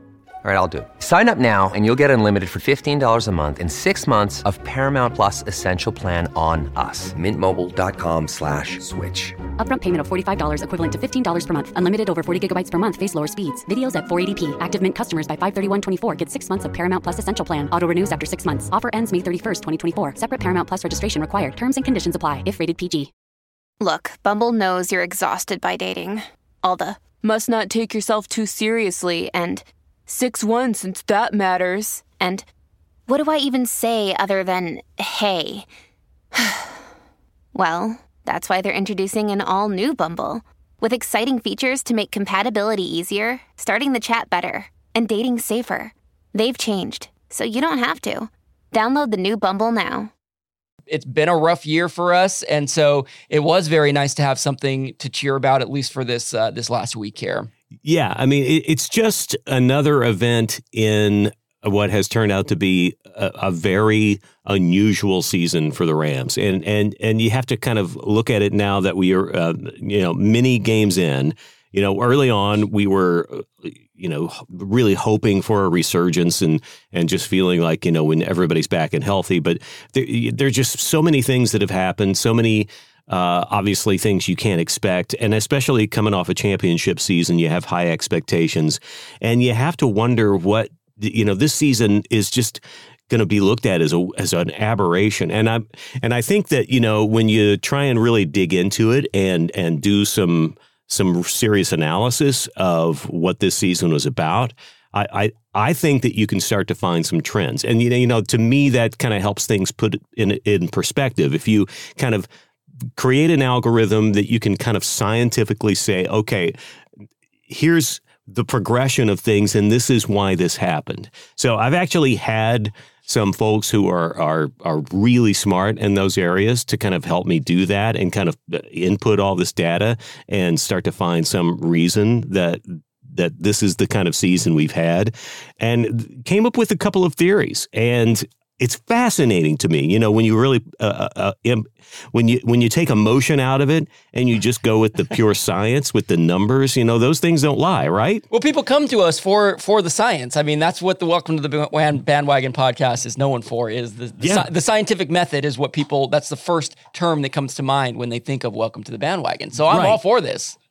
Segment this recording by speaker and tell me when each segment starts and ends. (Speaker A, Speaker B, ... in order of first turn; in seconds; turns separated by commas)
Speaker A: 0.4-9.4, Speaker B: 9.6-23.1, Speaker C: 23.8-32.5, Speaker C: 33.1-35.7, Speaker C: 36.3-36.8, Speaker C: 37.5-50.1, Speaker D: 50.9-57.5, Speaker E: 57.8-112.3, Speaker E: 113.0-116.6, Speaker E: 117.5-148.2, Speaker D: 148.3-160.6, Speaker E: 154.2-154.5, Speaker E: 159.7-160.0